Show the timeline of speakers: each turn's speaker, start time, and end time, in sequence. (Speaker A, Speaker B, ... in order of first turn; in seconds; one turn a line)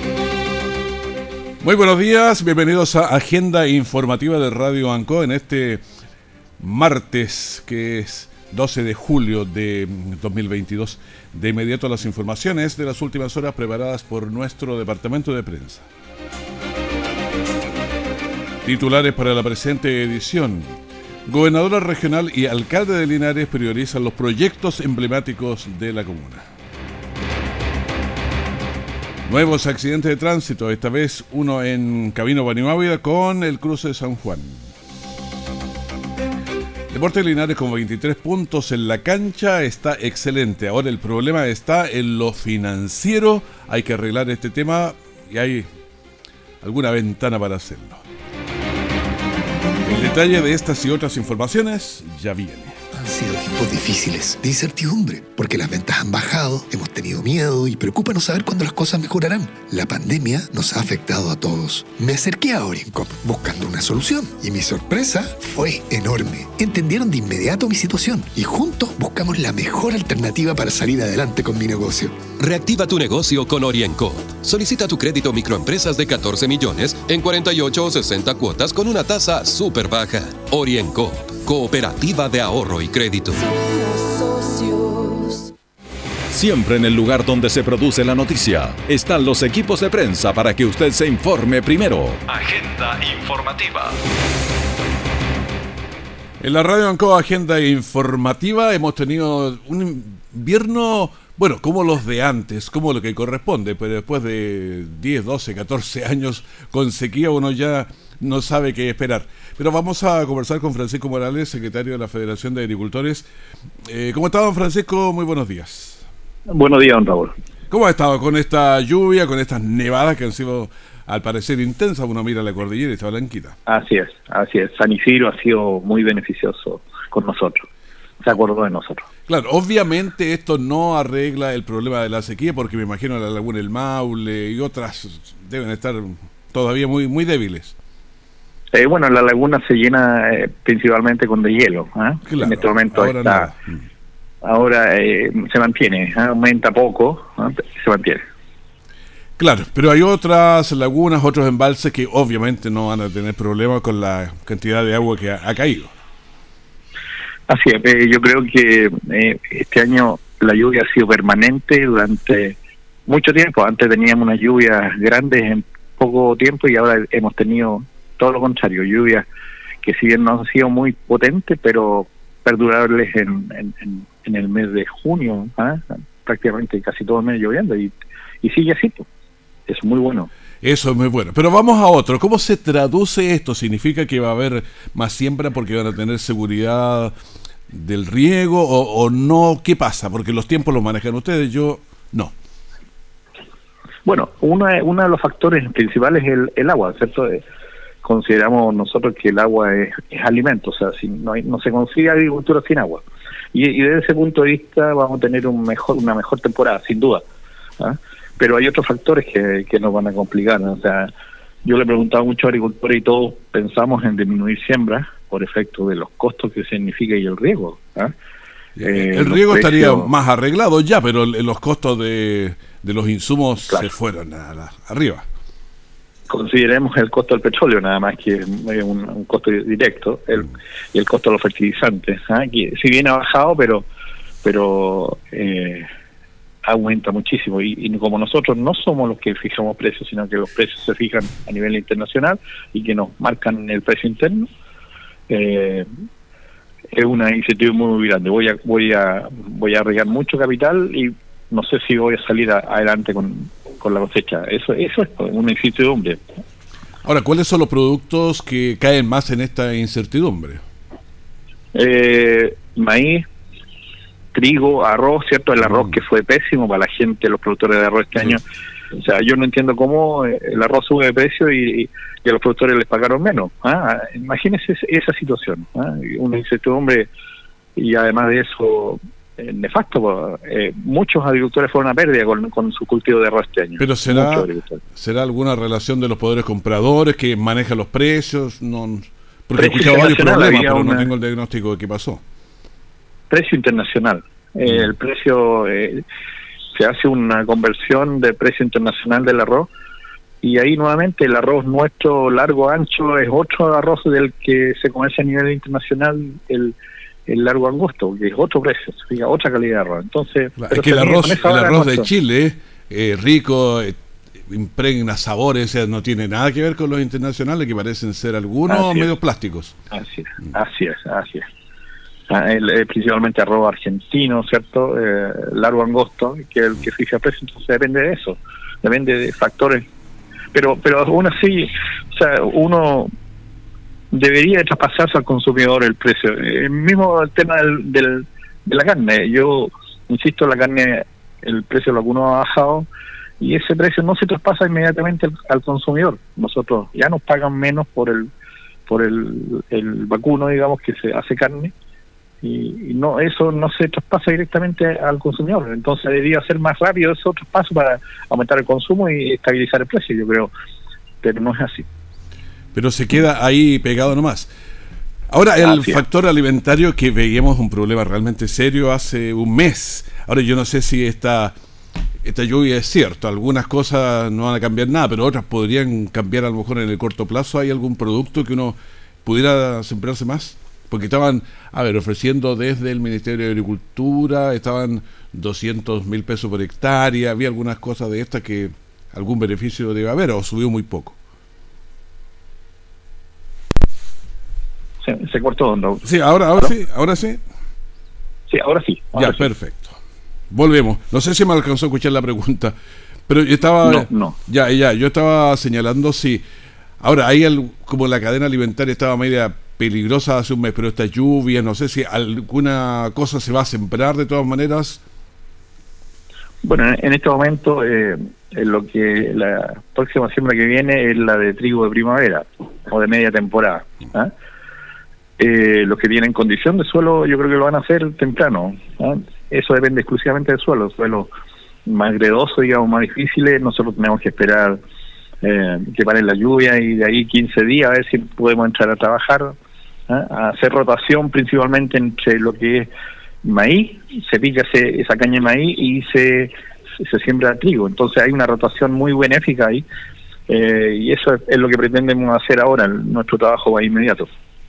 Speaker A: 1.6-5.8
Speaker A: 6.6-15.8
Speaker A: 18.6-20.7
Speaker A: 21.3-26.4
Speaker A: 29.3-34.6
Speaker A: 36.9-45.7
Speaker A: 46.6-48.0
Speaker A: 49.9-52.8
Speaker B: 52.9-72.2
Speaker C: 72.4-83.5
Speaker D: 86.3-94.0
Speaker A: 96.4-113.3
Speaker A: 113.9-116.0
Speaker E: 116.5-117.3
Speaker A: 117.7-123.6
Speaker E: 123.7-127.7
Speaker E: 128.2-129.1
Speaker A: 129.3-137.8
Speaker E: 138.7-143.5
Speaker A: 142.2-143.8
Speaker E: 144.4-148.2
Speaker A: 149.4-155.9
Speaker E: 157.5-169.2
Speaker E: 169.8-179.1
Speaker E: 179.7-180.3
Speaker A: 180.6-187.1
Speaker A: 187.7-192.3
Speaker E: 194.1-197.4
Speaker E: 198.0-207.2
Speaker E: 207.8-211.1
Speaker E: 211.6-218.1
Speaker A: 218.8-225.2
Speaker E: 218.8-220.1
Speaker E: 226.3-233.8
Speaker E: 234.4-235.9
Speaker E: 236.6-244.5
Speaker E: 245.3-245.9
Speaker E: 246.9-256.2
Speaker A: 257.1-260.6
Speaker E: 261.7-263.2
Speaker E: 264.3-268.4
Speaker E: 268.9-277.1
Speaker E: 277.8-284.8
Speaker A: 283.8-292.2
Speaker E: 289.6-291.1
Speaker E: 293.3-296.0
Speaker E: 296.7-299.7
Speaker E: 300.4-306.7
Speaker E: 307.3-312.1
Speaker A: 310.6-319.8
Speaker E: 318.7-319.1
Speaker E: 319.9-321.4
Speaker E: 322.3-329.9
Speaker E: 330.5-333.1
Speaker E: 334.1-342.9
Speaker E: 343.4-348.3
Speaker E: 348.9-351.7
Speaker E: 352.4-360.5
Speaker E: 361.2-361.9
Speaker A: 362.7-364.5
Speaker A: 365.3-371.5
Speaker E: 365.6-366.0
Speaker A: 372.2-391.2
Speaker E: 395.0-396.1
Speaker A: 396.1-397.4
Speaker E: 398.5-399.4
Speaker A: 399.1-399.9
Speaker A: 400.5-402.8
Speaker A: 403.3-406.4
Speaker E: 403.9-404.4
Speaker A: 407.0-415.0
Speaker E: 416.6-424.3
Speaker E: 425.4-431.3
Speaker E: 431.9-434.8
Speaker E: 435.4-439.6
Speaker E: 440.1-442.9
Speaker E: 443.4-449.9
Speaker E: 450.5-454.3